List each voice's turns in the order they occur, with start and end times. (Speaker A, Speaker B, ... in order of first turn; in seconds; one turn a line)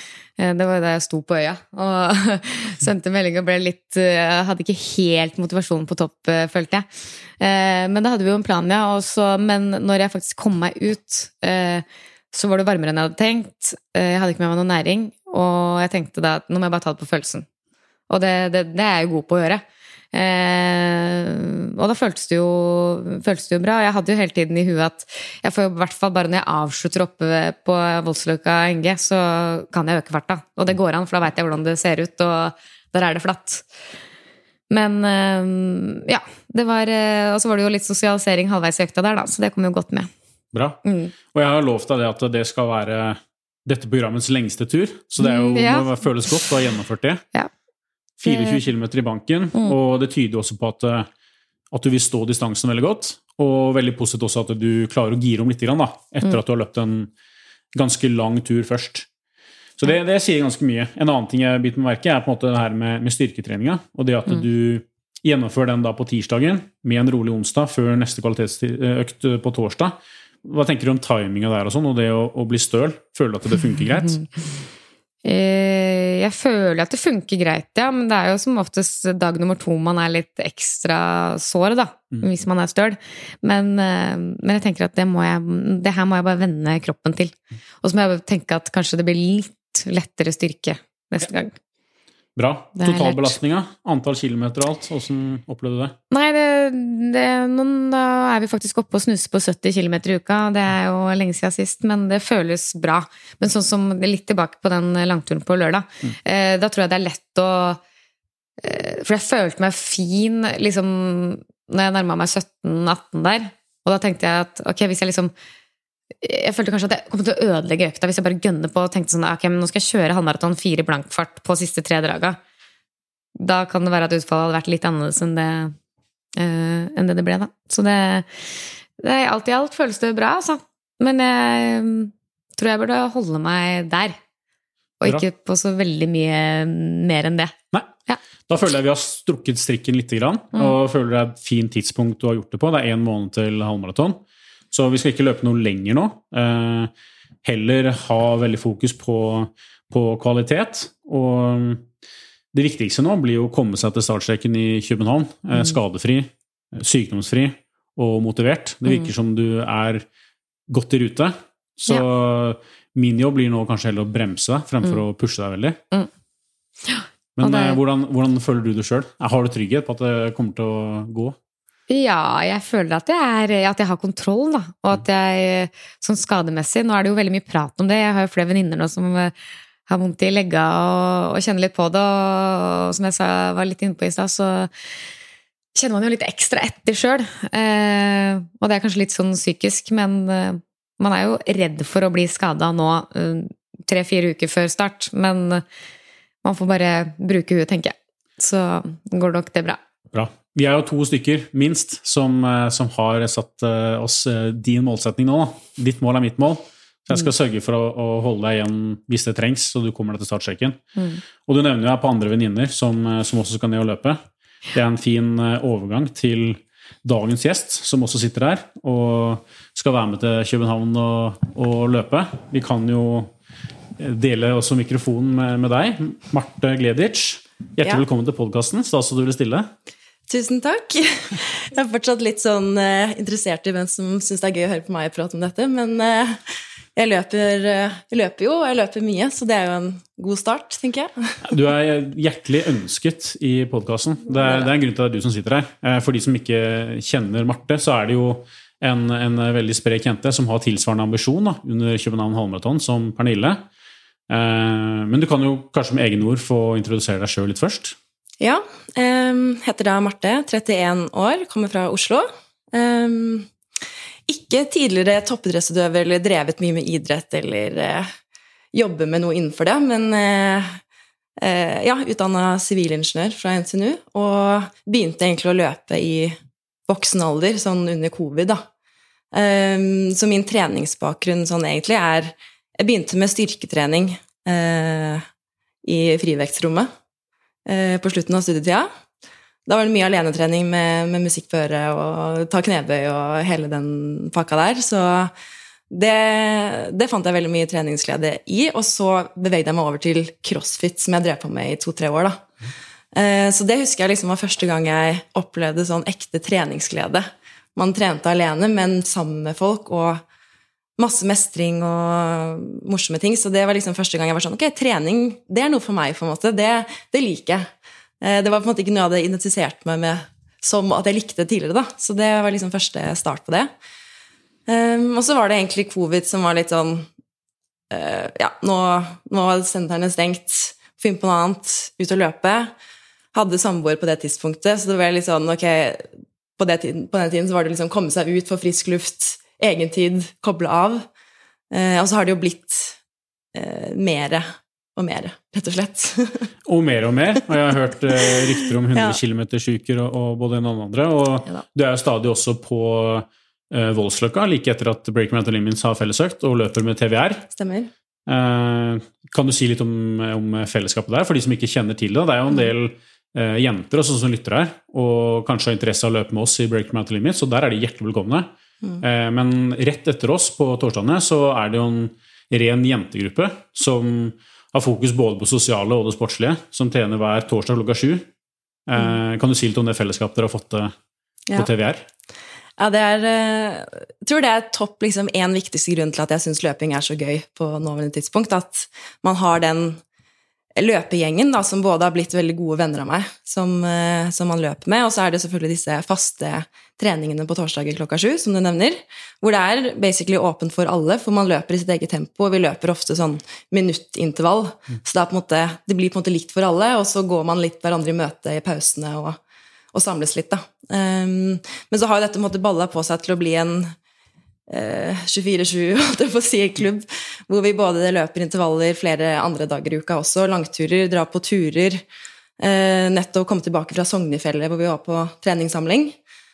Speaker A: 0.4-6.9
Speaker A: 7.4-17.5
Speaker A: 18.1-33.6
Speaker A: 34.7-40.1
Speaker B: 40.5-40.8
Speaker A: 40.9-41.1
Speaker B: 41.3-47.2
Speaker A: 45.2-45.9
Speaker B: 48.2-51.1
Speaker A: 48.3-48.6
Speaker B: 51.7-57.1
Speaker B: 57.8-59.1
Speaker B: 59.8-74.2
Speaker A: 75.2-91.6
Speaker B: 92.4-96.0
Speaker A: 92.8-93.3
Speaker A: 96.1-107.8
Speaker A: 108.6-115.3
Speaker A: 116.2-122.4
Speaker A: 123.4-125.8
Speaker A: 126.4-128.5
Speaker A: 129.0-134.2
Speaker A: 135.0-137.6
Speaker B: 138.5-144.2
Speaker B: 144.7-146.9
Speaker B: 147.4-151.9
Speaker B: 152.5-160.1
Speaker B: 160.7-165.8
Speaker A: 166.8-167.8
Speaker B: 167.4-171.4
Speaker A: 171.9-179.3
Speaker A: 179.9-184.7
Speaker A: 185.8-195.6
Speaker A: 196.4-199.8
Speaker B: 200.1-210.8
Speaker B: 211.5-214.2
Speaker B: 214.7-223.3
Speaker B: 224.0-229.7
Speaker C: 230.3-241.4
Speaker B: 241.4-253.6
Speaker C: 244.4-244.7
Speaker B: 254.3-258.0
Speaker C: 258.4-263.5
Speaker C: 264.3-268.1
Speaker C: 268.7-270.8
Speaker C: 271.4-278.7
Speaker C: 279.3-285.3
Speaker C: 285.8-286.9
Speaker C: 287.7-288.9
Speaker C: 289.7-295.3
Speaker C: 295.9-302.4
Speaker C: 303.1-310.2
Speaker C: 311.0-317.7
Speaker C: 318.2-323.7
Speaker C: 324.7-327.1
Speaker C: 327.9-332.7
Speaker C: 333.3-341.1
Speaker C: 341.7-343.0
Speaker C: 343.5-346.5
Speaker B: 346.7-357.5
Speaker C: 348.3-349.2
Speaker C: 357.5-357.9
Speaker B: 358.3-368.5
Speaker B: 369.0-378.3
Speaker B: 378.9-380.9
Speaker B: 381.5-382.1
Speaker C: 382.8-390.0
Speaker C: 390.8-409.4
Speaker C: 409.9-414.0
Speaker C: 414.7-422.0
Speaker C: 422.6-426.2